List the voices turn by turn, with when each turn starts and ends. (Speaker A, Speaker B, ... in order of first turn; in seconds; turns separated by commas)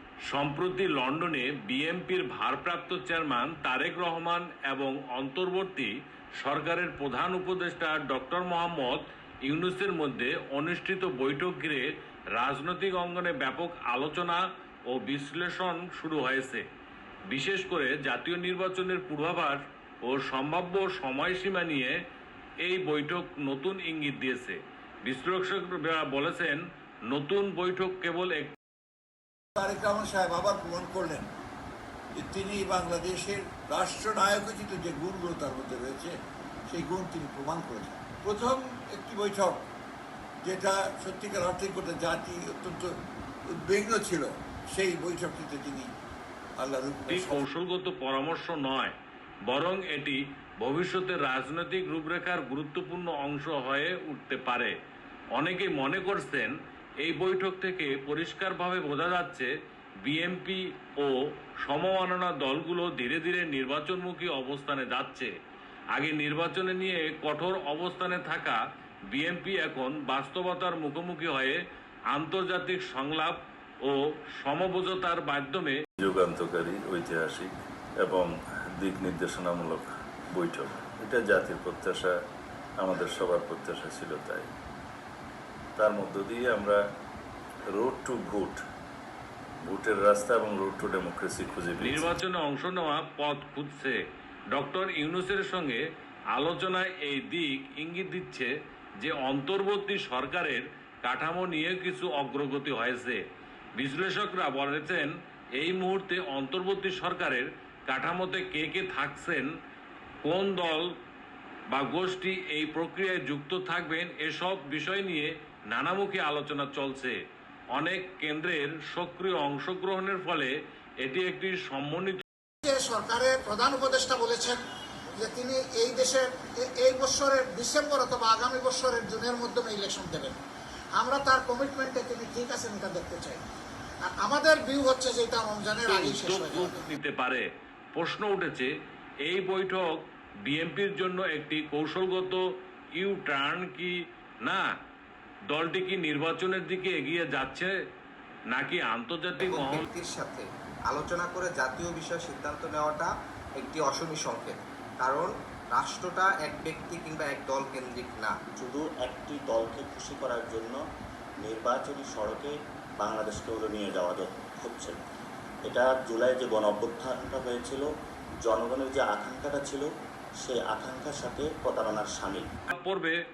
Speaker A: 0.3-16.6, Speaker A: 17.3-21.9, Speaker A: 22.6-28.5, Speaker B: 29.6-31.3, Speaker B: 32.2-36.1, Speaker B: 36.7-39.6, Speaker B: 40.4-42.9, Speaker B: 43.6-45.9, Speaker B: 46.6-47.4, Speaker A: 47.1-48.9, Speaker A: 49.5-54.7, Speaker A: 55.4-56.5, Speaker A: 57.0-59.5, Speaker A: 60.0-65.3, Speaker A: 65.9-68.6, Speaker A: 69.1-71.6, Speaker A: 72.1-75.8, Speaker C: 76.0-77.5, Speaker C: 78.0-82.1, Speaker C: 82.8-84.5, Speaker C: 85.8-86.8, Speaker C: 87.7-88.6, Speaker C: 89.7-92.1, Speaker A: 91.8-94.0, Speaker A: 94.5-95.8, Speaker A: 96.3-103.2, Speaker A: 103.8-109.5, Speaker A: 110.2-110.9, Speaker A: 111.7-117.2, Speaker A: 117.7-122.2, Speaker D: 122.6-124.6, Speaker D: 125.2-130.4, Speaker D: 131.0-133.4, Speaker D: 134.0-136.9, Speaker A: 135.9-138.7, Speaker A: 139.2-142.4, Speaker A: 142.9-144.7, Speaker A: 145.5-147.7, Speaker A: 148.5-149.8, Speaker E: 149.4-158.4, Speaker F: 158.6-160.8, Speaker C: 158.6-159.6, Speaker C: 160.4-160.7, Speaker F: 161.4-165.0, Speaker C: 161.4-162.4, Speaker C: 163.1-163.8, Speaker F: 165.7-167.9, Speaker F: 168.4-169.9, Speaker F: 170.4-172.4, Speaker A: 172.7-173.2